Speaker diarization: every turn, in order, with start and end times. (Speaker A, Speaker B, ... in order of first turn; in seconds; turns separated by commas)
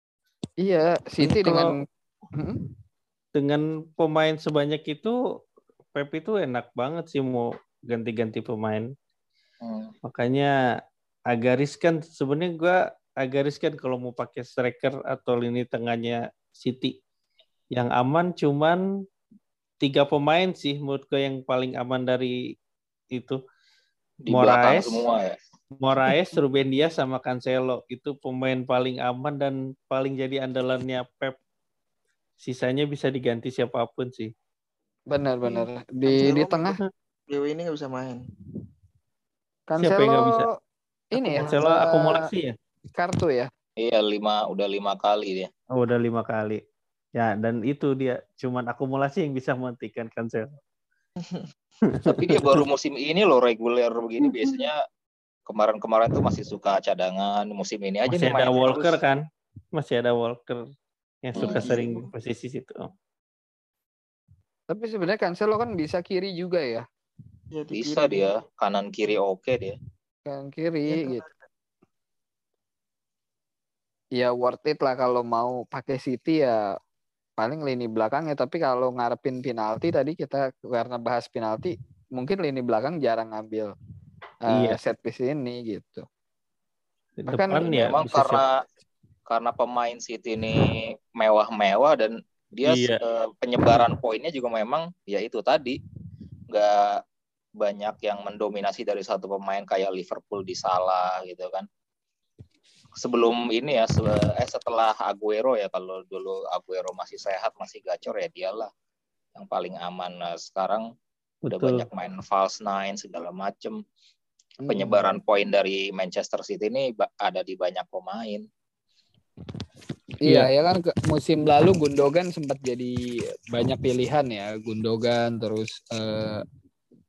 Speaker A: 0.6-1.8, Speaker B: 1.2-1.7, Speaker B: 3.3-5.1, Speaker B: 5.9-8.9, Speaker C: 9.6-9.9, Speaker B: 10.0-10.5, Speaker B: 11.3-16.9, Speaker B: 17.7-18.8, Speaker B: 19.8-22.4, Speaker B: 23.1-23.4, Speaker C: 24.2-25.4, Speaker B: 24.3-25.0, Speaker B: 25.8-31.4, Speaker B: 32.4-34.3, Speaker A: 35.1-36.8, Speaker D: 36.1-36.7, Speaker D: 37.3-38.2, Speaker A: 39.7-40.5, Speaker B: 39.8-40.5, Speaker A: 41.1-42.3, Speaker D: 41.3-41.6, Speaker B: 41.3-42.5, Speaker A: 42.9-43.5, Speaker C: 43.8-45.5, Speaker B: 45.7-46.6, Speaker B: 47.1-50.5, Speaker D: 51.2-51.5, Speaker B: 51.9-52.6, Speaker C: 52.0-54.8, Speaker C: 55.5-58.9, Speaker B: 58.1-59.2, Speaker B: 59.7-60.6, Speaker B: 61.2-62.9, Speaker C: 61.4-61.7, Speaker D: 61.4-62.1, Speaker A: 64.7-66.8, Speaker D: 67.5-68.3, Speaker C: 67.7-69.7, Speaker A: 70.2-71.2, Speaker D: 70.9-71.3, Speaker A: 74.2-76.6, Speaker A: 77.4-83.7, Speaker A: 84.5-86.0, Speaker B: 84.5-84.8, Speaker B: 87.2-88.4, Speaker A: 87.3-87.7, Speaker C: 87.6-88.5, Speaker C: 89.3-95.8, Speaker B: 92.6-93.0, Speaker C: 96.5-97.0, Speaker C: 97.6-101.7, Speaker C: 103.0-108.7, Speaker C: 109.3-110.8, Speaker B: 111.5-111.8, Speaker C: 111.5-113.8, Speaker A: 114.6-115.1, Speaker C: 114.7-118.5, Speaker A: 120.2-123.0, Speaker A: 123.5-126.4